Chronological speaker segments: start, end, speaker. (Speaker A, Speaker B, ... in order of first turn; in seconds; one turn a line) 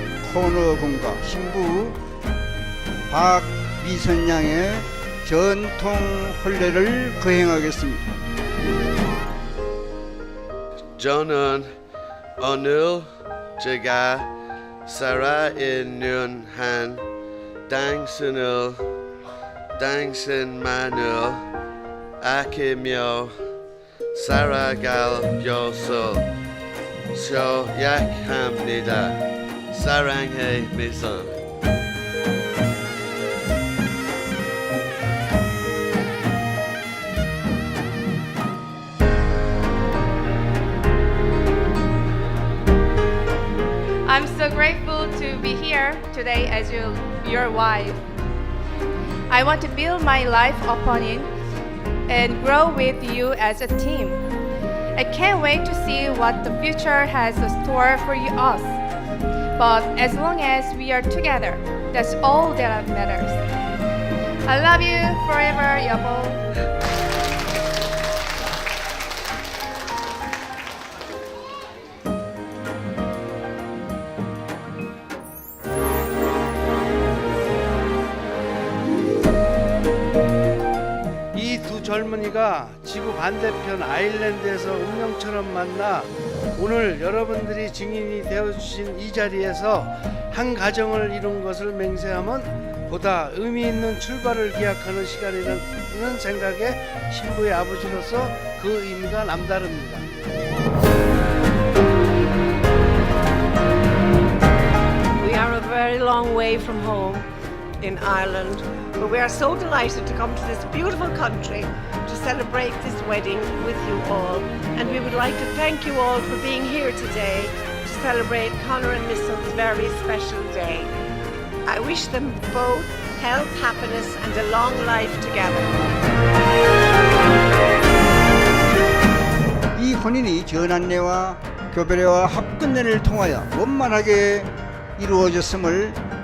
Speaker A: 0.2-2.0
Speaker A: 3.1-8.0
Speaker B: 11.0-11.7
Speaker B: 12.4-13.0
Speaker B: 13.6-14.3
Speaker B: 14.8-17.0
Speaker B: 17.7-18.8
Speaker B: 19.8-21.4
Speaker B: 22.2-23.3
Speaker B: 24.1-26.2
Speaker B: 27.1-29.2
Speaker B: 29.7-31.4
Speaker C: 44.0-48.0
Speaker C: 49.3-51.3
Speaker C: 52.1-54.2
Speaker C: 55.0-58.8
Speaker C: 59.6-63.4
Speaker C: 64.5-66.4
Speaker D: 81.3-100.1
Speaker E: 105.2-107.3
Speaker E: 107.8-120.9
Speaker E: 121.7-125.8
Speaker A: 129.7-136.0